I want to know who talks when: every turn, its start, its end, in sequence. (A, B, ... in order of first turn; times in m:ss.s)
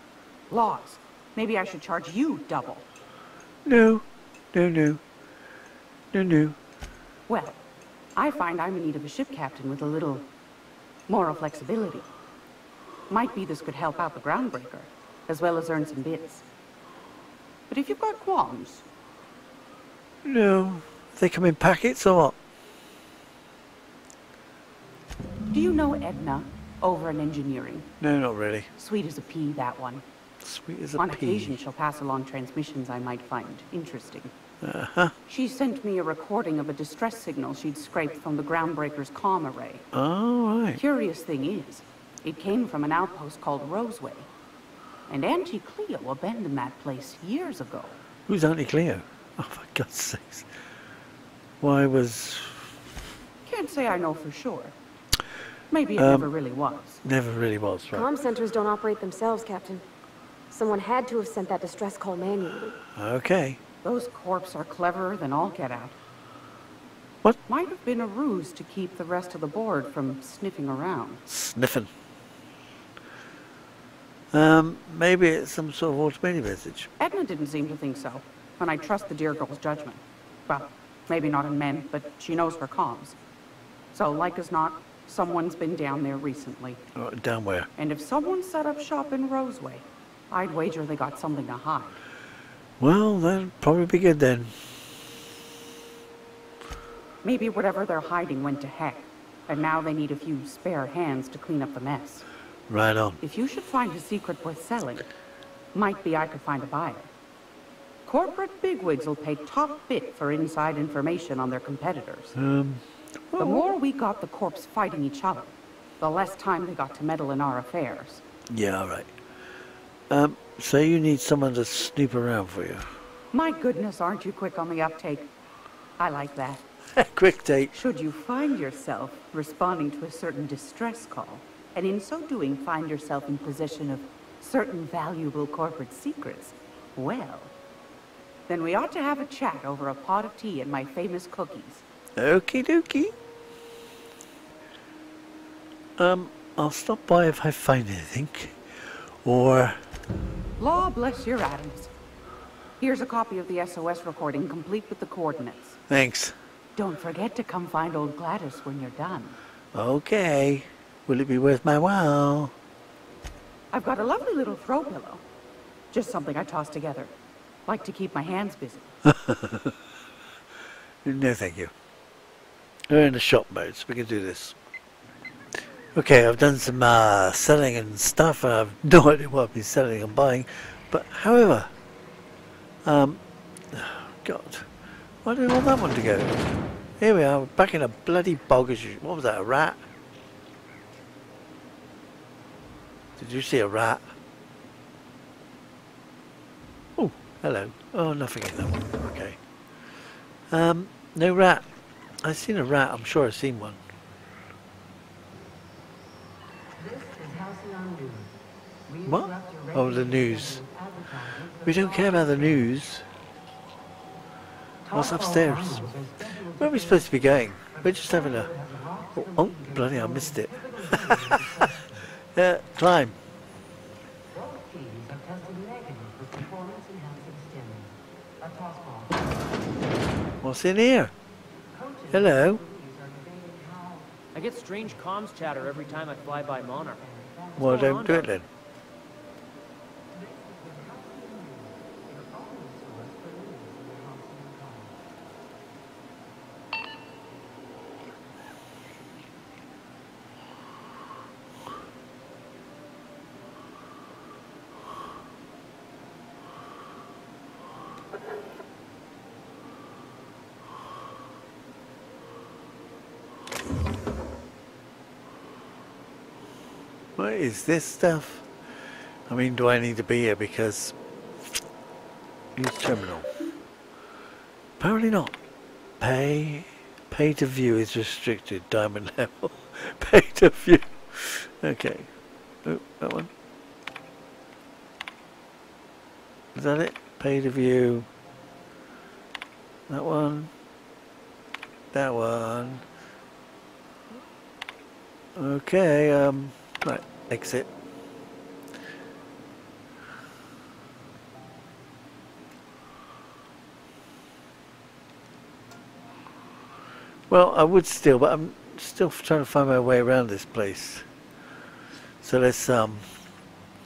0:00.5-0:02.9 A
0:03.6-0:05.0 B
0:06.1-0:06.6 B
0:07.3-0:07.6 A
0:08.2-0:10.3 A
0:11.1-0:12.1 A
0:13.1-0:16.4 A
0:17.7-0:18.8 A
0:20.2-0:22.4 B
0:25.5-0:27.9 A
0:28.0-0:28.7 B
0:28.8-0:30.0 A
0:30.4-0:31.6 B
0:31.0-0:34.3 A
0:34.6-0:35.1 B
0:35.3-0:39.8 A
0:39.9-0:40.8 B
0:40.8-0:44.3 A
0:45.1-0:48.0 A
0:48.2-0:50.5 B
0:51.6-0:52.8 B
0:53.4-0:54.7 A
0:55.7-0:57.0 A
0:56.0-0:56.3 B
0:57.0-0:58.1 B
0:57.9-0:59.8 C
1:00.5-1:02.8 C
1:02.9-1:03.6 B
1:03.8-1:06.0 A
1:07.5-1:11.2 A
1:11.3-1:11.9 B
1:14.3-1:16.9 B
1:17.0-1:23.2 A
1:23.9-1:26.8 A
1:27.0-1:27.7 B
1:27.8-1:32.0 A
1:32.8-1:34.7 B
1:37.2-1:42.2 A
1:42.7-1:43.2 B
1:43.2-1:45.1 A
1:45.7-1:47.1 A
1:48.0-1:52.3 A
1:52.4-1:53.7 B
1:53.4-1:58.2 A
1:58.5-1:59.2 B
2:00.1-2:02.9 B
2:03.3-2:05.3 A
2:06.0-2:06.6 A
2:06.9-2:07.8 B
2:07.8-2:17.5 A
2:18.5-2:21.8 A
2:22.2-2:23.1 B
2:26.0-2:29.8 B
2:30.6-2:31.9 A
2:32.8-2:35.8 A
2:35.9-2:36.3 B
2:36.8-2:39.4 A
2:39.7-2:42.5 B
2:43.7-2:45.2 A
2:45.9-2:47.1 A
2:47.6-2:48.9 A
2:49.0-2:49.8 B
2:51.0-2:51.7 B
2:52.9-2:54.6 B
2:55.9-3:01.7 B
3:02.8-3:04.7 B
3:05.2-3:09.8 B
3:13.2-3:14.1 B
3:17.0-3:19.4 B
3:20.5-3:21.6 B
3:22.2-3:23.8 B
3:26.8-3:28.3 D
3:28.9-3:32.7 D
3:29.0-3:30.6 B
3:31.6-3:33.0 B
3:34.8-3:42.0 D
3:34.9-3:36.0 B
3:36.6-3:38.5 B
3:39.1-3:43.2 B
3:44.3-3:49.4 D
3:50.4-3:51.1 B
3:51.7-3:54.1 D
3:52.1-3:52.6 B
3:54.3-3:57.0 E
3:55.6-3:56.0 D
3:56.8-3:58.1 D
3:57.6-3:58.5 B
3:57.8-3:58.3 E
4:00.1-4:04.9 D
4:27.2-4:28.5 B
4:29.3-4:31.0 B
4:32.6-4:33.3 B
4:34.8-4:35.4 B
4:36.0-4:42.1 B
4:42.6-4:43.3 B
4:46.5-4:48.1 B
4:49.9-4:50.5 B
4:51.9-4:52.8 B
4:55.4-4:57.7 B
5:07.3-5:11.0 B
5:12.2-5:13.1 B